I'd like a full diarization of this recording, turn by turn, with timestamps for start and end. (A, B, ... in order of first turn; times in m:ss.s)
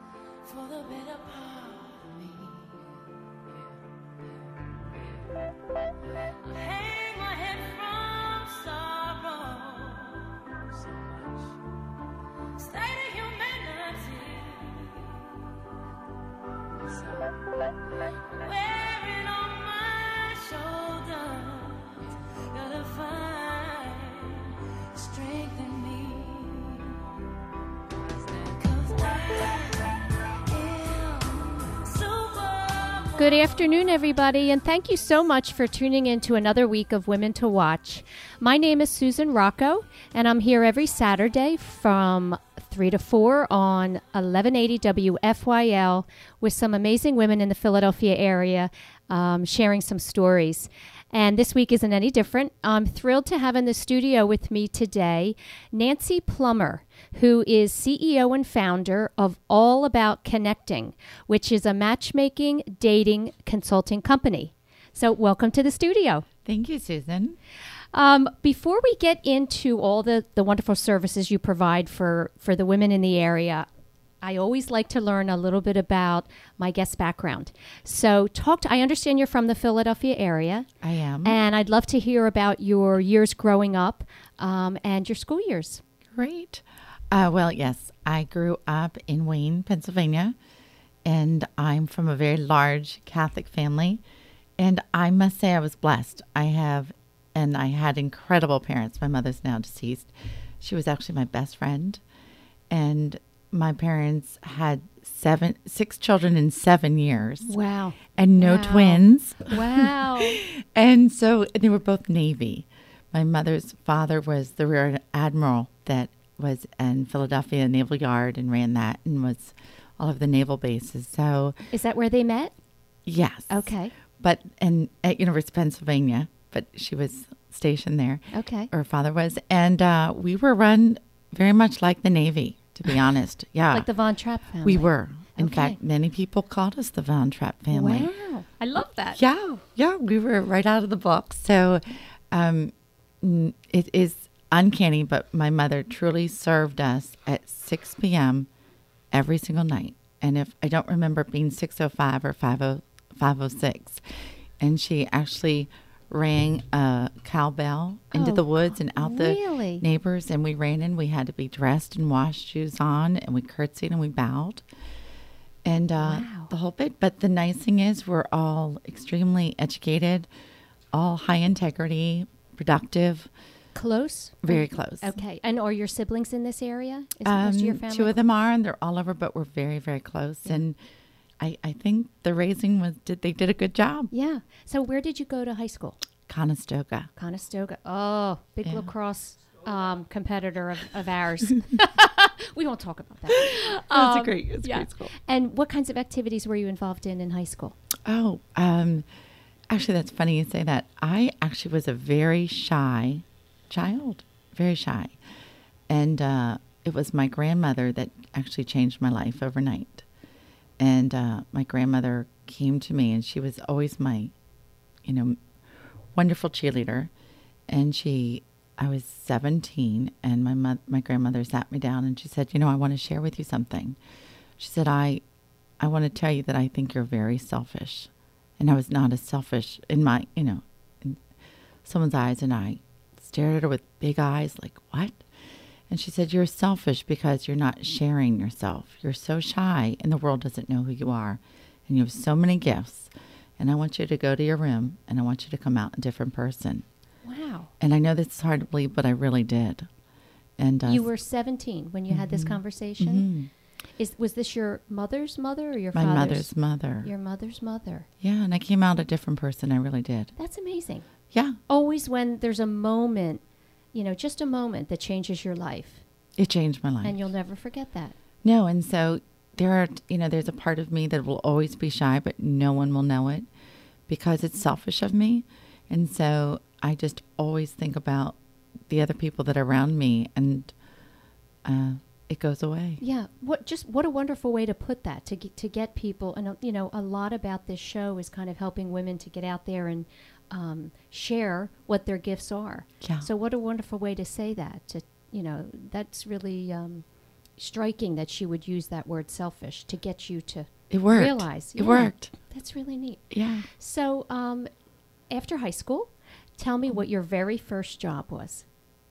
0:00.4-0:02.7 A
0:06.4-0:11.3 A
0:12.5-0:15.2 A
0:16.7-0:17.5 A
0:18.2-0:27.0 A
0:28.2-0:33.4 A
0:33.2-1:06.2 B
1:06.4-1:07.4 C
1:07.9-1:13.7 B
1:14.2-1:20.7 B
1:20.8-1:21.4 C
1:21.2-1:25.8 B
1:26.1-1:30.4 C
1:31.0-1:34.0 C
1:34.6-1:42.0 C
1:42.7-1:47.5 C
1:47.4-1:50.4 B
1:48.1-2:01.6 C
2:01.7-2:02.5 B
2:03.0-2:13.9 C
2:03.5-2:03.9 B
2:08.3-2:08.7 B
2:13.7-2:15.8 B
2:14.6-2:18.1 C
2:17.7-2:19.2 B
2:19.1-2:28.5 C
2:29.1-2:34.0 C
2:34.6-2:44.6 C
2:38.1-2:38.4 B
2:39.0-2:39.8 B
2:45.6-2:50.3 C
2:46.0-2:46.5 B
2:50.9-2:53.3 C
2:53.7-2:58.2 B
2:54.4-2:55.2 C
2:57.2-3:00.8 C
3:01.4-3:04.1 C
3:04.1-3:06.0 B
3:06.3-3:07.1 C
3:07.2-3:17.8 B
3:08.6-3:08.9 C
3:13.3-3:15.1 C
3:18.0-3:19.1 C
3:19.7-3:25.2 C
3:25.9-3:30.0 C
3:30.8-3:34.3 C
3:35.0-3:35.4 C
3:36.1-3:37.1 C
3:37.7-3:44.0 C
3:44.6-3:45.2 C
3:45.8-3:51.2 C
3:51.8-3:55.2 C
3:55.9-4:06.8 C
4:07.2-4:07.7 B
4:07.8-4:09.9 C
4:10.6-4:11.1 C
4:10.8-4:13.2 B
4:12.1-4:13.5 C
4:14.0-4:16.5 B
4:15.9-4:17.1 C
4:17.0-4:18.1 B
4:18.2-4:20.3 C
4:20.4-4:21.1 B
4:21.3-4:21.6 C
4:21.7-4:23.4 B
4:23.9-4:26.0 B
4:26.4-4:27.3 C
4:27.0-4:28.2 B
4:28.4-4:33.5 C
4:34.1-4:38.4 C
4:38.9-4:40.7 C
4:41.6-4:43.0 C
4:43.0-4:57.0 B
4:53.0-4:53.3 C
4:57.6-5:04.7 B
5:00.9-5:02.3 C
5:03.3-5:03.7 C
5:05.3-5:08.6 B